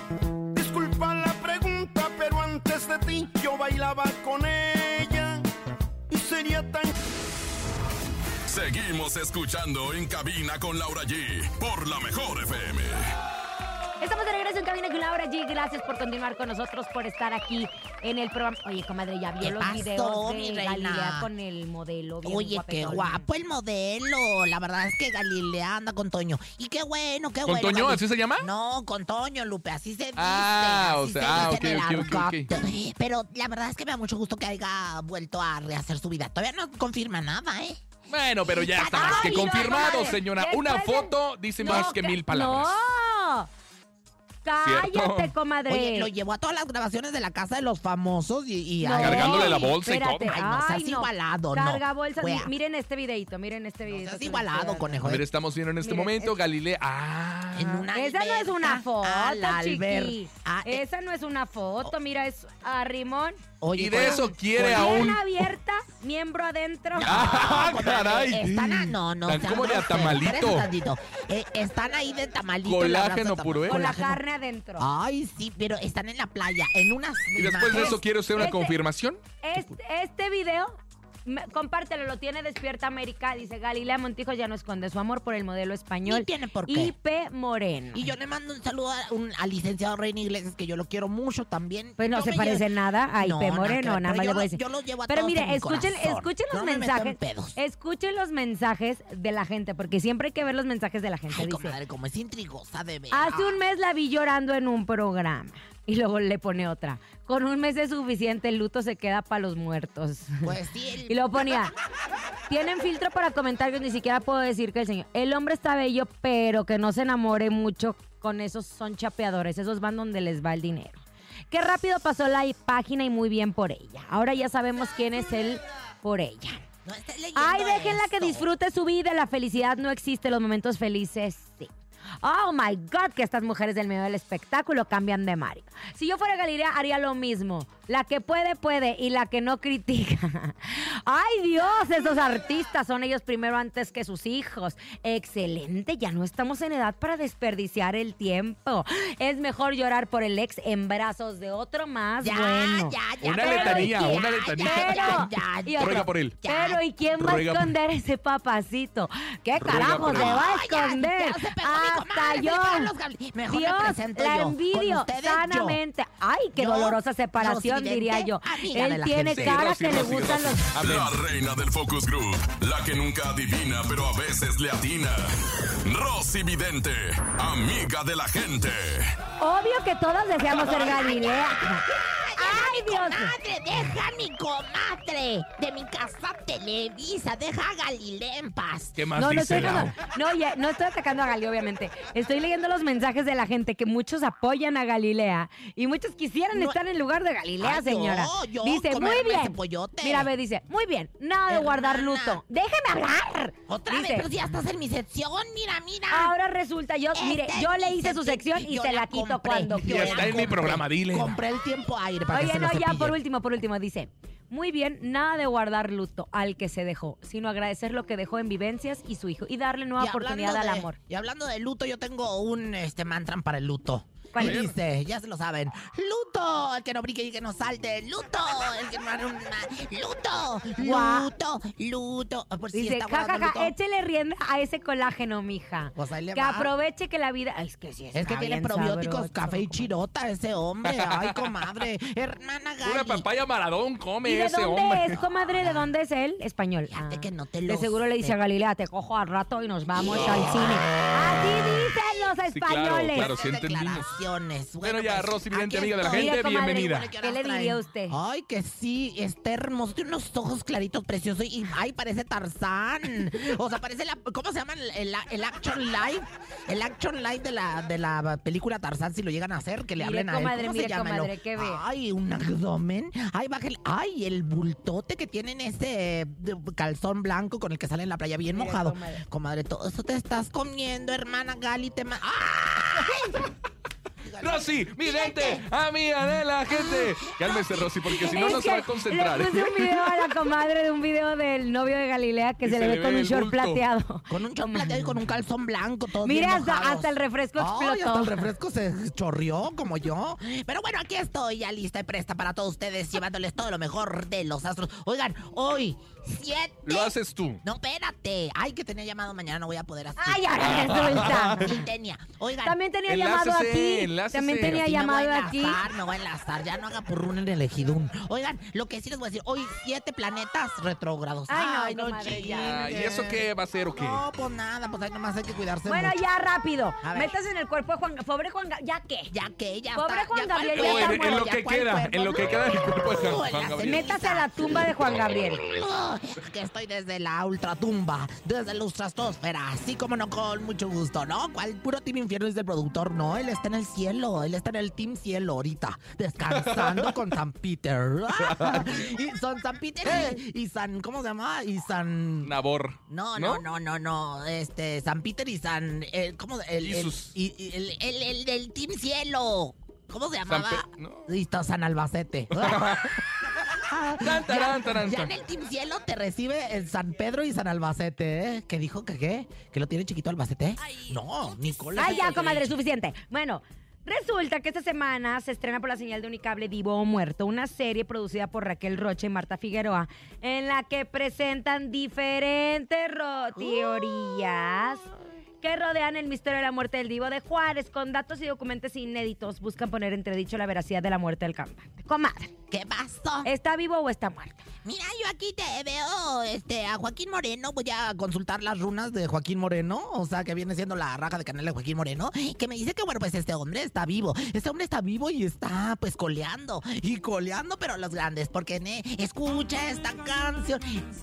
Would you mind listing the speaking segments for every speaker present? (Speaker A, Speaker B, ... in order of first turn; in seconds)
Speaker A: 0.5-5.5, 6.1-6.9
Speaker B: 8.5-13.1, 170.8-179.2
Speaker C: 14.0-23.3, 39.0-43.5, 44.5-46.1, 48.8-55.0, 55.8-56.3, 57.9-63.4, 64.0-67.2, 73.7-74.9, 77.7-78.8, 79.4-88.1, 92.0-101.8, 103.1-110.5, 111.1-111.7, 112.5-126.6, 127.3-131.7, 132.2-162.9, 163.5-170.7, 179.4-181.8, 182.4-183.4, 189.2-204.3, 206.1-210.5, 212.3-221.0, 224.3-224.6, 230.8-231.3, 232.7-239.9, 244.2-253.3, 256.1-258.2, 270.0-271.8, 278.5-279.2, 288.2-295.2, 296.2-298.5, 310.2-311.8, 312.6-315.8, 321.5-322.8, 325.9-329.3, 329.9-331.5, 333.8-335.6, 372.0-385.1, 385.6-392.5, 393.4-394.6
Speaker D: 19.4-21.3, 22.2-37.9, 38.5-40.2, 41.7-41.9, 45.7-52.5, 53.9-55.2, 57.5-60.9, 63.6-65.1, 66.9-74.2, 74.8-78.0, 86.1-86.9, 87.9-92.7, 93.2-97.6, 101.3-103.6, 110.4-111.7, 126.8-128.5, 152.2-156.8, 159.7-165.8, 166.6-169.7, 180.6-189.0, 196.5-196.8, 197.6-200.3, 201.5-202.4, 203.7-206.3, 207.1-213.2, 220.0-233.7, 235.9-236.7, 238.1-243.3, 245.6-245.9, 246.9-248.4, 249.9-251.4, 253.1-283.4, 284.2-285.6, 286.7-288.4, 294.3-312.8, 314.6-326.2, 327.0-327.3, 329.3-352.5, 353.1-363.1, 363.7-372.8, 383.6-384.3, 392.7-393.5, 394.8-411.1
Speaker E: 27.4-28.5, 30.2-32.5, 38.1-42.8, 44.6-45.3, 49.0-50.4, 55.0-57.8, 63.8-65.2, 67.0-70.7, 72.7-73.8, 77.4-79.2, 153.2-155.2, 155.8-156.4, 157.1-157.7, 159.6-160.3, 169.3-171.2, 189.0-189.9, 209.8-211.4, 224.4-224.7, 240.8-241.5, 242.8-245.2, 252.5-254.1, 254.8-257.1, 284.4-290.1, 292.6-293.8, 306.9-307.6, 310.6-311.7, 313.1-314.9, 322.3-324.2, 330.8-334.1, 346.5-347.2, 348.4-349.1, 350.1-350.4, 352.4-353.6, 356.8-357.3, 360.5-361.3, 362.5-363.2, 364.2-365.3